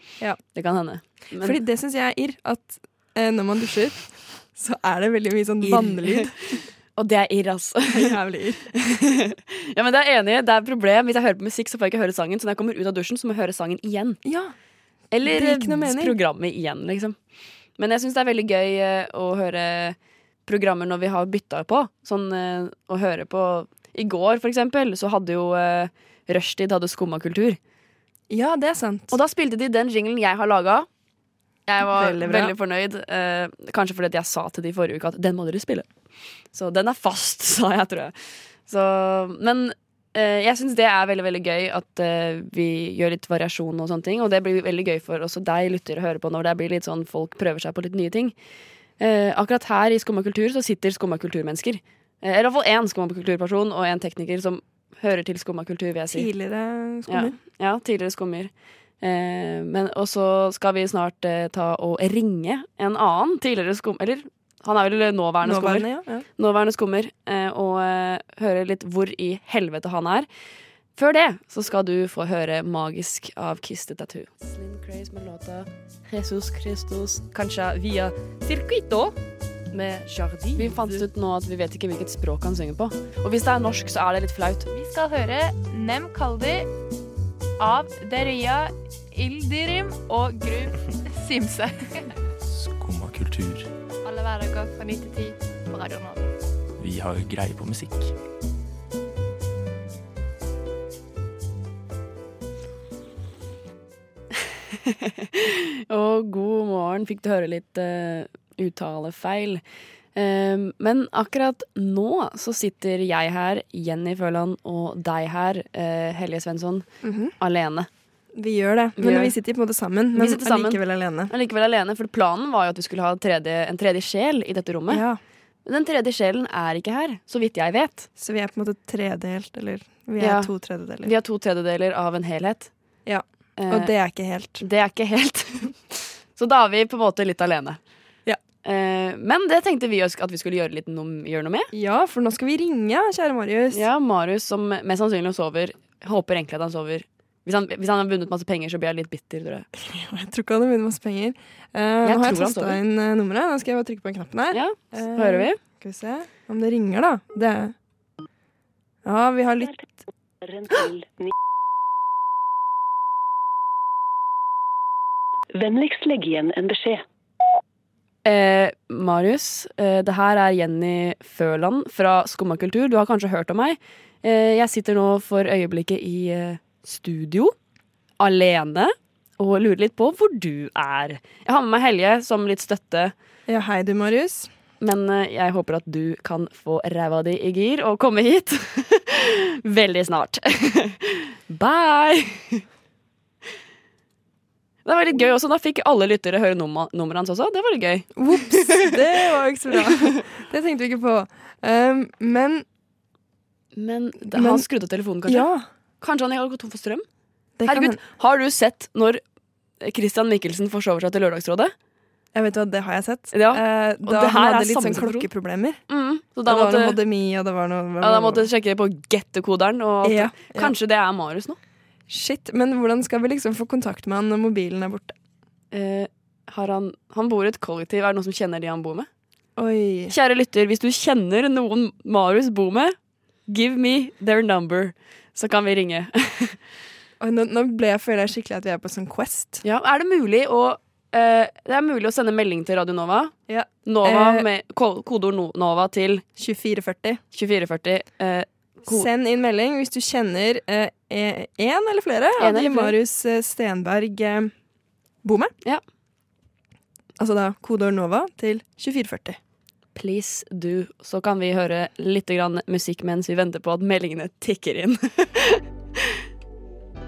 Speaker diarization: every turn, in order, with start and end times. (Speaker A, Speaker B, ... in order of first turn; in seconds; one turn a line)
Speaker A: 0.5-1.6
Speaker B: 1.4-6.3
Speaker A: 5.6-8.2
Speaker B: 7.9-8.7
Speaker A: 8.7-14.2
Speaker B: 14.2-14.5
Speaker A: 15.1-17.2
Speaker B: 15.2-16.2
Speaker A: 17.8-27.6
Speaker B: 28.3-29.1
Speaker A: 29.1-30.9
Speaker A: 31.7-35.9
Speaker B: 31.8-32.5
Speaker A: 36.5-38.1
Speaker A: 38.7-48.3
Speaker A: 49.0-56.3
Speaker B: 56.1-57.4
Speaker A: 57.1-65.9
Speaker B: 65.4-66.3
Speaker A: 66.4-70.3
Speaker A: 71.0-77.2
Speaker C: 77.3-79.2
Speaker C: 79.7-81.0
Speaker A: 80.6-84.7
Speaker C: 84.7-86.7
Speaker C: 87.6-92.1
Speaker D: 92.5-93.7
Speaker C: 94.0-96.3
Speaker D: 96.8-98.1
Speaker A: 104.9-109.6
Speaker A: 110.2-116.9
Speaker B: 117.0-117.3
Speaker A: 117.4-117.9
Speaker B: 118.3-121.3
Speaker A: 119.0-119.3
Speaker A: 120.1-125.0
Speaker B: 124.9-125.2
Speaker A: 125.7-128.1
Speaker B: 128.2-131.1
Speaker A: 130.2-130.5
Speaker A: 131.0-132.7
Speaker B: 133.1-134.6
Speaker A: 133.6-133.9
Speaker A: 134.6-137.8
Speaker A: 138.6-141.7
Speaker B: 141.7-143.8
Speaker A: 143.7-149.7
Speaker B: 149.8-157.8
Speaker A: 152.0-152.8
Speaker A: 154.5-155.6
Speaker B: 159.1-159.8
Speaker E: 160.4-161.3
Speaker E: 165.6-167.0
Speaker A: 168.2-177.5
Speaker A: 178.2-183.1
Speaker B: 183.5-184.5
Speaker A: 184.8-192.6
Speaker A: 194.8-199.2
Speaker B: 198.2-202.7
Speaker A: 203.8-205.5
Speaker B: 204.3-204.7
Speaker B: 205.3-205.7
Speaker A: 206.0-207.0
Speaker B: 207.6-208.0
Speaker A: 207.7-209.2
Speaker A: 209.8-211.7
Speaker B: 212.3-215.8
Speaker A: 213.3-215.3
Speaker A: 215.9-217.0
Speaker B: 216.5-218.5
Speaker A: 218.0-221.6
Speaker B: 220.0-220.7
Speaker B: 222.1-225.2
Speaker A: 225.7-229.1
Speaker B: 229.6-230.1
Speaker A: 230.1-232.9
Speaker A: 233.5-236.6
Speaker B: 237.2-239.6
Speaker A: 239.6-246.2
Speaker B: 243.5-244.5
Speaker B: 246.4-247.2
Speaker A: 247.3-249.1
Speaker B: 248.9-254.5
Speaker A: 252.4-253.0
Speaker B: 255.2-255.5
Speaker B: 257.2-259.4
Speaker A: 259.9-266.2